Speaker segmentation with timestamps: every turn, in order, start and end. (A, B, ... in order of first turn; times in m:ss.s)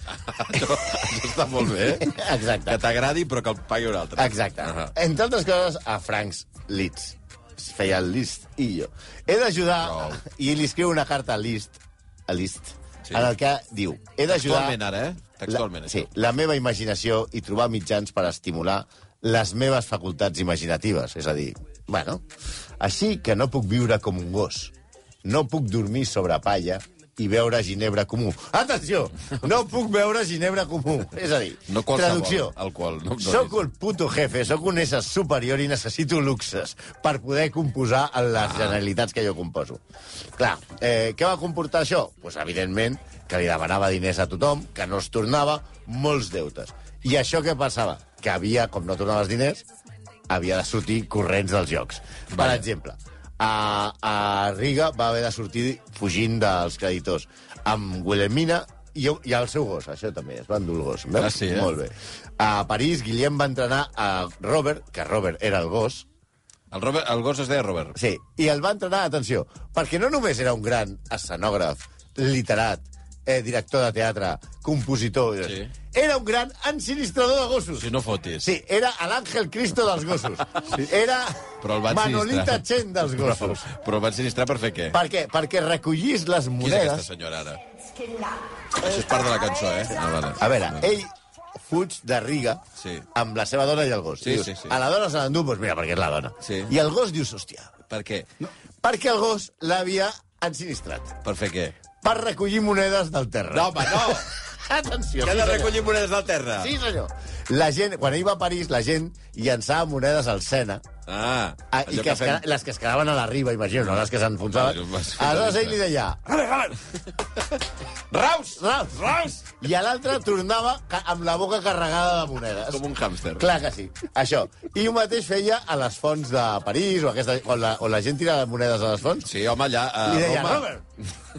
0:00.2-0:04.9 A
0:02.0-0:02.8 B
0:04.2-0:14.8 B
0:09.8-0:10.2 A
0:13.1-0:13.3 A
0:14.3-0:16.1 A
0:15.5-0:22.2 B
0:22.8-0:24.7 B
0:25.2-0:32.6 B
0:31.7-0:33.6 A
0:33.2-0:39.8 B
0:38.5-0:38.8 A
0:40.4-0:49.7 B
0:50.3-1:06.1 B
0:52.3-0:52.6 A
1:01.2-1:01.7 A
1:06.7-1:08.0 A
1:08.0-1:17.9 B
1:15.4-1:15.7 A
1:17.8-1:18.5 A
1:18.4-1:23.7 B
1:21.6-1:25.0 A
1:24.9-1:27.1 B
1:26.6-1:27.6 A
1:28.8-1:30.9 A
1:30.4-1:32.6 B
1:32.8-1:33.0 A
1:33.2-1:37.8 B
1:34.2-1:34.8 A
1:36.4-1:36.7 A
1:37.9-1:38.3 A
1:38.8-1:41.2 B
1:41.2-1:41.8 A
1:42.0-1:45.8 B
1:43.5-1:44.3 A
1:45.2-1:46.7 A
1:46.6-1:50.9 B
1:51.1-1:52.4 A
1:51.7-1:56.8 B
1:54.5-1:55.8 A
1:58.1-1:58.6 A
1:58.5-2:02.8 B
2:02.7-2:03.5 A
2:03.4-2:09.3 B
2:09.2-2:10.7 A
2:10.0-2:10.8 B